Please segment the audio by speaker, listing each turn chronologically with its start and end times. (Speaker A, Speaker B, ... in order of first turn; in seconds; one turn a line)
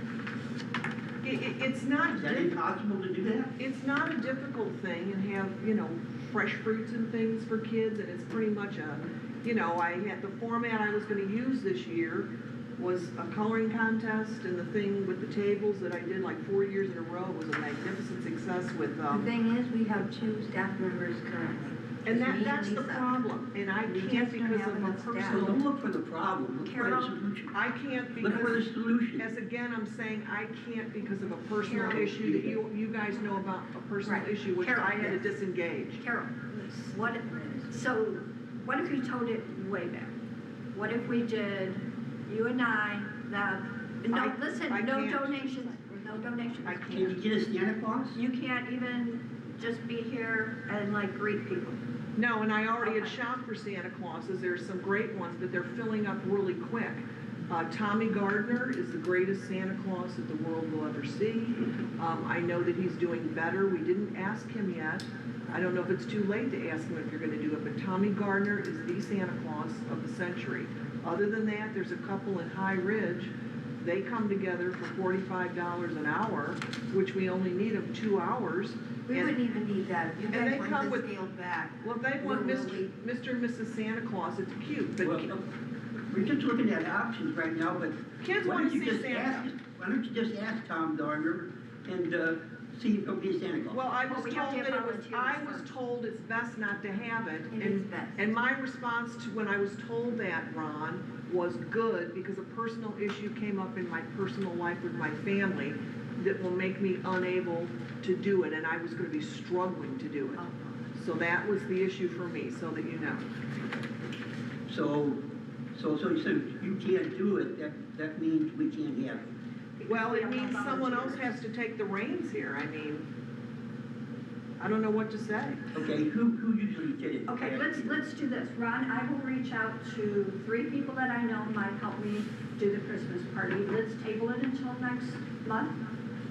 Speaker A: 1.2-2.5
Speaker B: 2.1-3.5
Speaker A: 3.6-19.3
Speaker C: 19.1-23.2
Speaker A: 22.1-25.6
Speaker C: 23.9-25.6
Speaker B: 25.3-27.6
Speaker D: 26.6-27.2
Speaker A: 27.5-36.0
Speaker B: 28.2-29.3
Speaker B: 31.6-32.6
Speaker D: 34.0-35.3
Speaker D: 36.0-40.1
Speaker D: 40.7-47.2
Speaker A: 44.1-45.7
Speaker A: 46.6-47.1
Speaker B: 46.9-48.2
Speaker D: 48.1-51.8
Speaker A: 52.2-79.4
Speaker D: 52.8-53.2
Speaker C: 79.1-82.9
Speaker A: 80.3-81.1
Speaker A: 81.8-85.3
Speaker B: 85.0-85.5
Speaker B: 86.0-93.8
Speaker A: 88.2-89.5
Speaker A: 93.7-113.2
Speaker D: 94.0-95.7
Speaker C: 97.5-98.2
Speaker B: 114.7-115.2
Speaker B: 115.7-119.3
Speaker D: 119.8-121.3
Speaker A: 119.9-123.1
Speaker A: 124.6-125.6
Speaker B: 125.7-128.1
Speaker D: 127.3-135.8